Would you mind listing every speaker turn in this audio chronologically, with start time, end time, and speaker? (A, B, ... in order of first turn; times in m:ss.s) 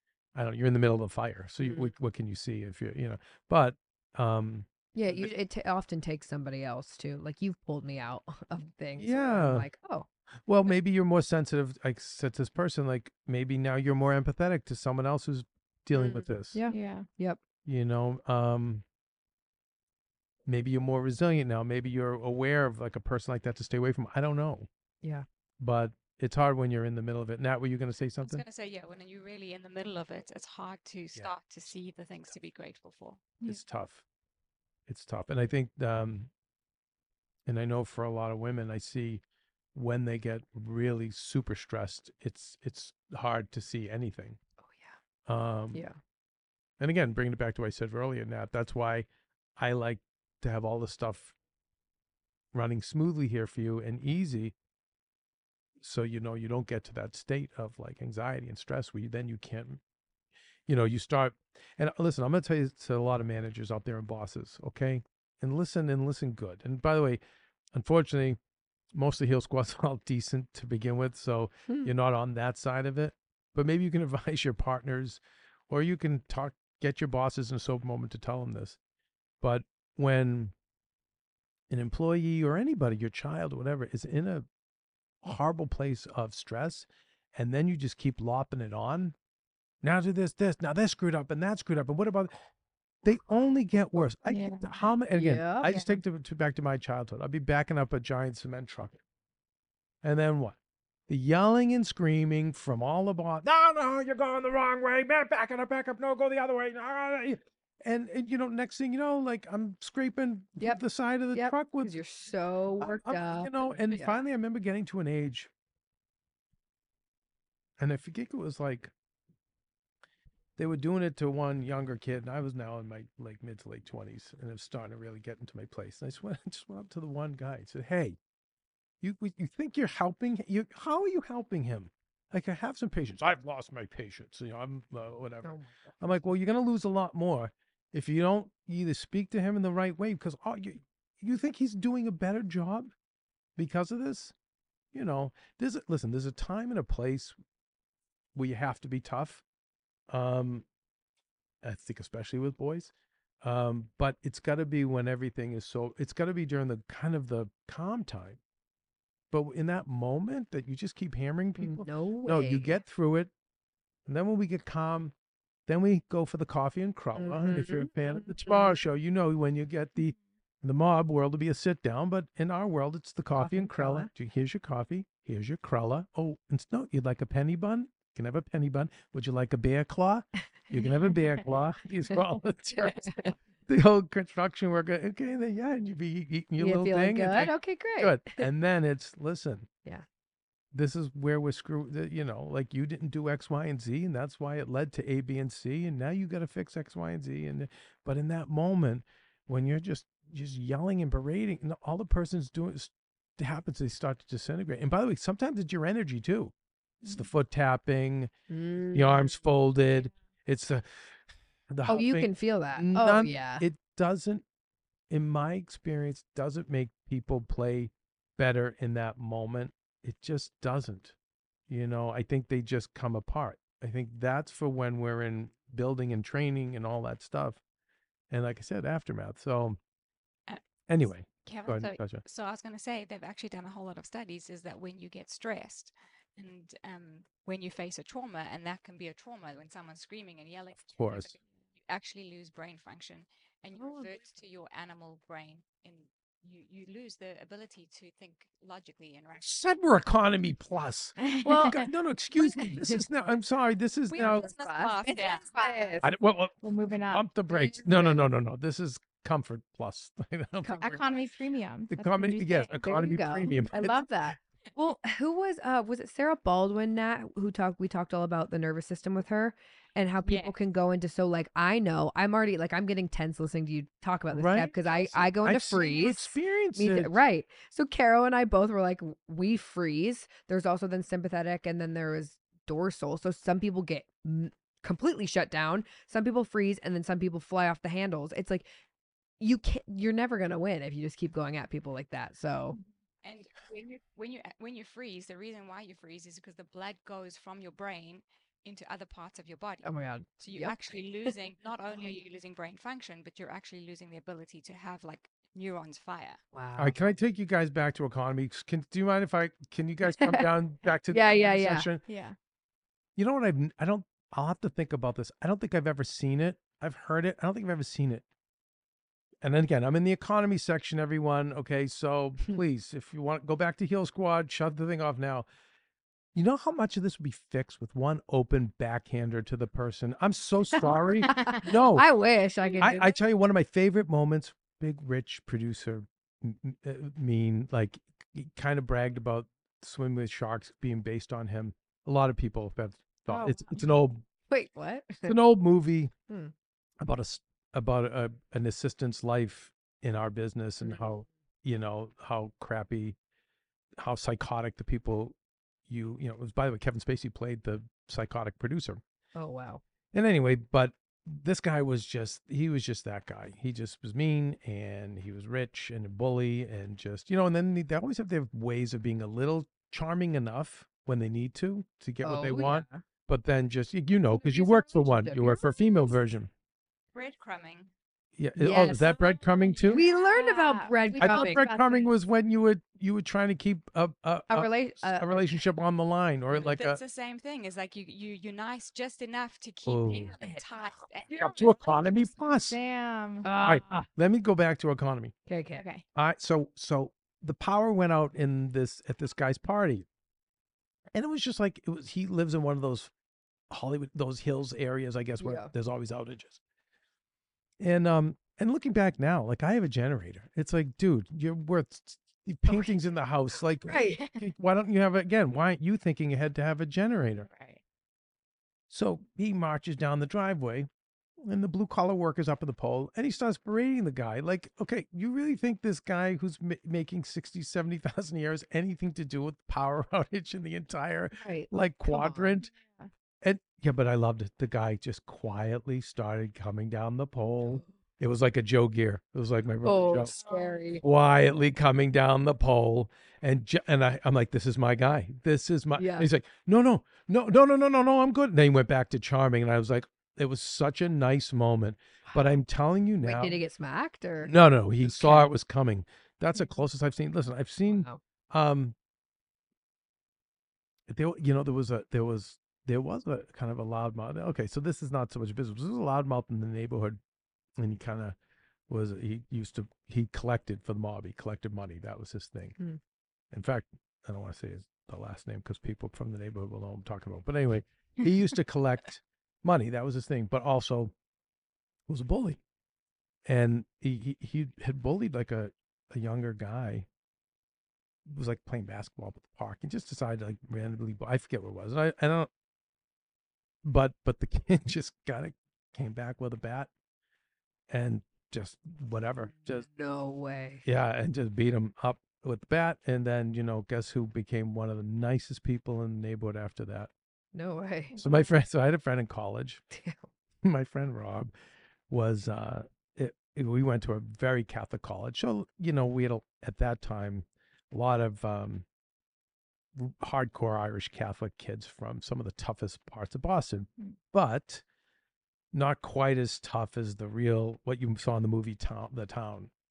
0:00.3-0:05.3 A
0:01.6-0:01.9 B
0:04.9-0:10.1 B
0:09.0-0:09.7 A
0:10.5-0:16.6 A
0:15.9-0:17.4 B
0:16.7-0:17.0 C
0:17.6-0:18.8 A
0:20.4-0:24.7 A
0:25.6-0:28.4 A
0:28.2-0:33.4 D
0:33.4-0:34.0 A
0:34.9-0:36.3 A
0:37.4-0:39.2 A
0:39.7-0:44.4 A
0:44.6-0:44.9 B
0:45.2-0:45.8 A
0:46.8-0:49.0 A
0:49.6-0:51.3 A
0:52.5-0:54.5 A
0:55.8-0:59.8 A
1:00.7-1:07.2 A
1:07.7-1:08.4 A
1:08.9-1:18.8 A
1:19.4-1:20.5 A
1:21.7-1:24.4 A
1:25.2-1:29.1 A
1:29.8-1:32.3 A
1:33.0-1:39.0 A
1:34.3-1:34.8 C
1:35.1-1:35.7 B
1:40.0-1:40.6 A
1:41.1-1:51.9 A
1:51.3-1:54.2 B
1:52.8-1:55.5 A
1:57.8-1:58.9 A
2:00.6-2:08.2 A
2:09.0-2:22.9 A
2:15.4-2:15.9 B
2:23.6-2:24.3 A
2:24.9-2:27.4 A
2:28.3-2:29.4 A
2:30.1-2:30.6 A
2:31.6-2:32.9 A
2:33.4-2:38.4 A
2:39.3-2:43.3 A
2:41.6-2:42.8 B
2:44.1-2:45.1 A
2:45.7-3:09.7 A
2:47.2-2:47.9 B
2:53.4-2:54.1 B
3:02.8-3:03.3 B
3:06.6-3:08.5 B
3:10.7-3:28.3 A
3:28.5-3:29.3 B
3:28.9-3:31.2 A
3:31.7-3:34.4 A
3:31.9-3:33.6 B
3:35.1-3:41.1 A
3:41.7-3:47.6 A
3:48.3-3:49.8 A
3:50.9-3:52.2 A
3:51.5-4:09.6 D
4:00.9-4:01.3 A
4:03.8-4:04.1 B
4:09.4-4:14.5 A
4:11.4-4:11.8 C
4:14.1-4:15.7 D
4:14.2-4:16.1 B
4:15.0-4:15.8 C
4:16.0-4:16.6 A
4:16.6-4:17.3 C
4:17.1-4:21.1 A
4:17.9-4:18.3 B
4:20.8-4:22.8 C
4:21.9-4:24.0 A
4:22.8-4:48.7 B
4:23.7-4:24.0 C
4:30.2-4:30.5 D
4:34.3-4:37.2 A
4:49.4-4:52.8 B
4:53.2-4:59.9 D
4:59.8-5:00.8 B
5:00.4-5:06.4 D
5:06.5-5:07.1 B
5:06.8-5:12.0 A
5:10.0-5:10.5 B
5:11.1-5:11.9 B
5:12.1-5:12.3 C
5:13.2-5:18.2 A
5:19.4-5:25.5 A
5:26.3-5:32.1 A
5:30.8-5:33.1 B
5:32.8-5:44.2 A
5:43.3-5:43.7 B
5:44.5-5:45.4 B
5:45.2-5:46.1 A
5:47.0-5:53.2 A
5:54.0-5:55.3 A
5:55.9-5:59.0 A
5:59.3-5:59.8 B
6:00.1-6:16.5 A
6:12.2-6:13.0 B
6:14.4-6:15.8 B
6:17.1-6:17.9 D
6:18.4-6:20.0 A
6:18.6-6:19.2 B
6:19.8-6:22.0 C
6:19.9-6:21.7 B
6:21.2-6:27.0 A
6:24.5-6:25.5 B
6:26.5-6:32.3 D
6:29.8-6:30.3 A
6:30.3-6:30.6 B
6:31.3-6:32.8 A
6:32.7-6:33.5 C
6:33.4-6:34.1 B
6:33.6-6:35.3 A
6:35.5-6:35.8 B
6:35.8-6:36.0 C
6:36.1-6:40.0 A
6:41.1-6:43.1 A
6:43.7-6:46.6 A
6:45.4-6:45.7 B
6:47.8-6:57.5 A
6:53.8-6:54.2 B
6:57.5-6:57.8 C
6:58.9-7:00.9 A
7:01.4-7:12.7 A
7:11.4-7:12.6 B
7:12.7-7:13.1 C
7:13.4-7:20.3 A
7:19.8-7:21.0 B
7:21.0-7:33.6 A
7:26.0-7:26.3 B
7:33.2-7:35.5 B
7:34.4-7:38.9 A
7:37.9-7:38.2 B
7:41.1-7:47.2 A
7:47.8-7:48.4 A
7:48.9-7:52.8 A
7:53.5-8:01.1 A
8:02.1-8:02.6 A
8:03.4-8:07.1 A
8:08.3-8:12.5 A
8:13.8-8:16.9 A
8:17.9-8:19.8 A
8:19.7-8:20.8 B
8:20.8-8:27.1 A
8:27.5-8:28.2 B
8:28.2-8:29.8 A
8:29.9-8:30.3 B
8:30.6-8:31.5 A
8:32.1-8:38.8 A
8:40.0-8:44.8 A
8:45.7-8:49.7 A